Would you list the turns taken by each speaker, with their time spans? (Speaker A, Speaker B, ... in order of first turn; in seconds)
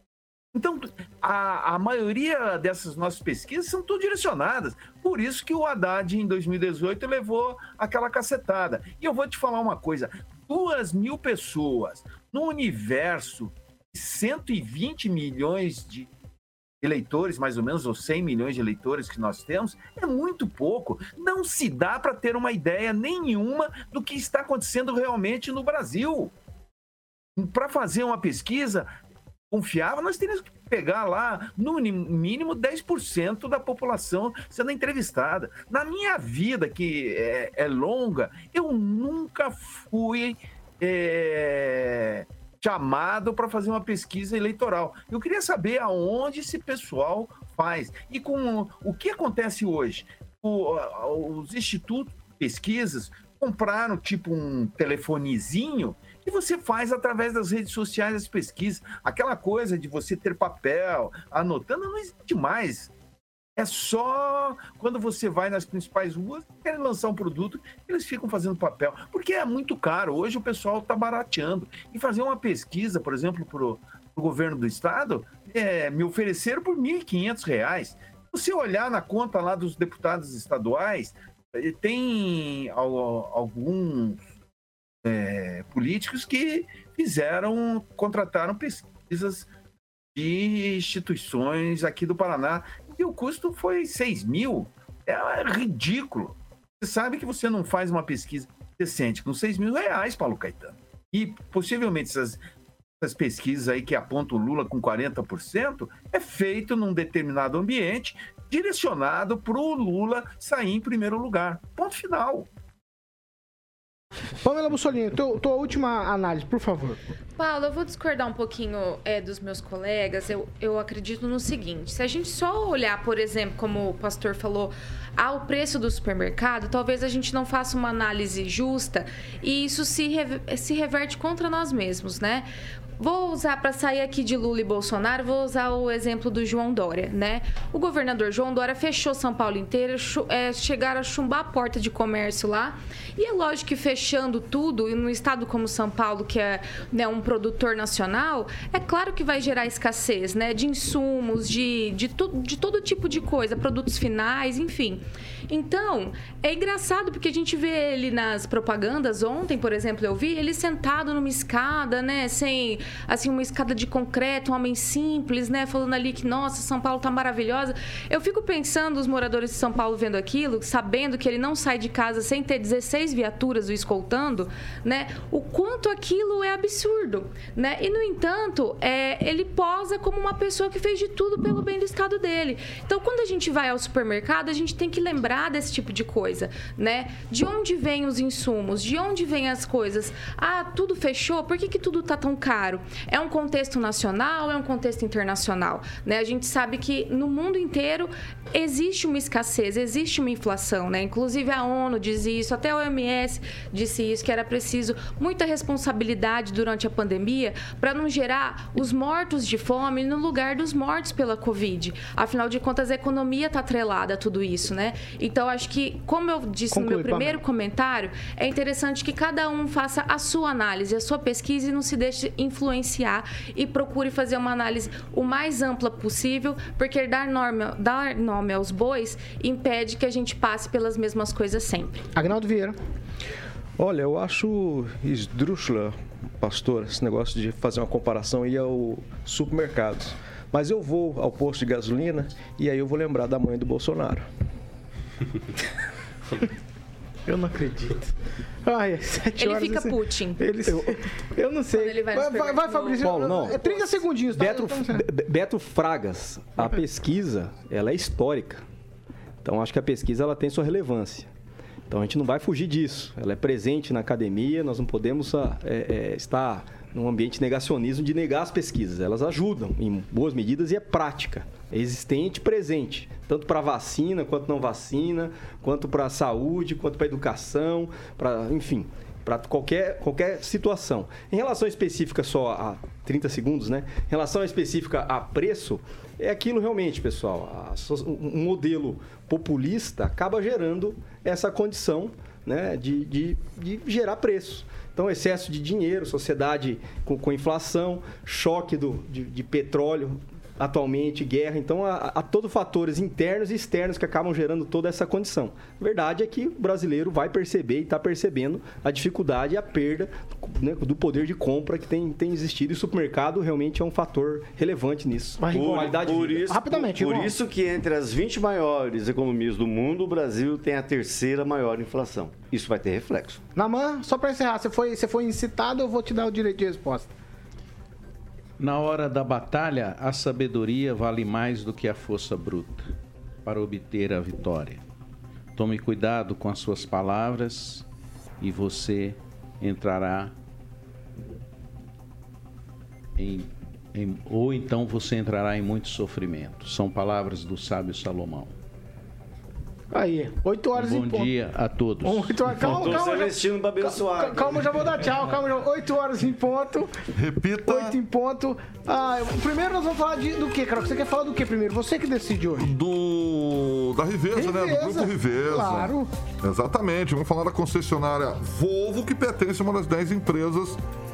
Speaker A: 0.5-16.1, 16.8-26.3, 27.4-28.9, 29.5-62.9, 63.6-84.2, 85.0-89.5, 90.1-102.4, 103.0-112.5
Speaker B: 114.4-117.0, 216.7-217.4, 232.1-232.7, 247.2-248.1, 248.6-255.0, 315.4-317.3, 323.6-327.1, 349.9-351.3, 352.0-356.9, 357.6-362.7, 364.3-366.1
Speaker C: 117.4-132.5, 133.0-232.1, 249.4-250.4, 251.7-253.9
Speaker D: 233.8-244.2
Speaker E: 253.0-253.6, 254.3-258.6, 259.4-261.3, 261.9-316.5
Speaker F: 315.5-323.4, 352.6-354.6
Speaker G: 328.6-332.8, 333.4-334.8, 335.5-337.9, 338.4-340.3, 343.1-348.5, 350.7-353.0
Speaker H: 357.1-357.9, 362.6-370.8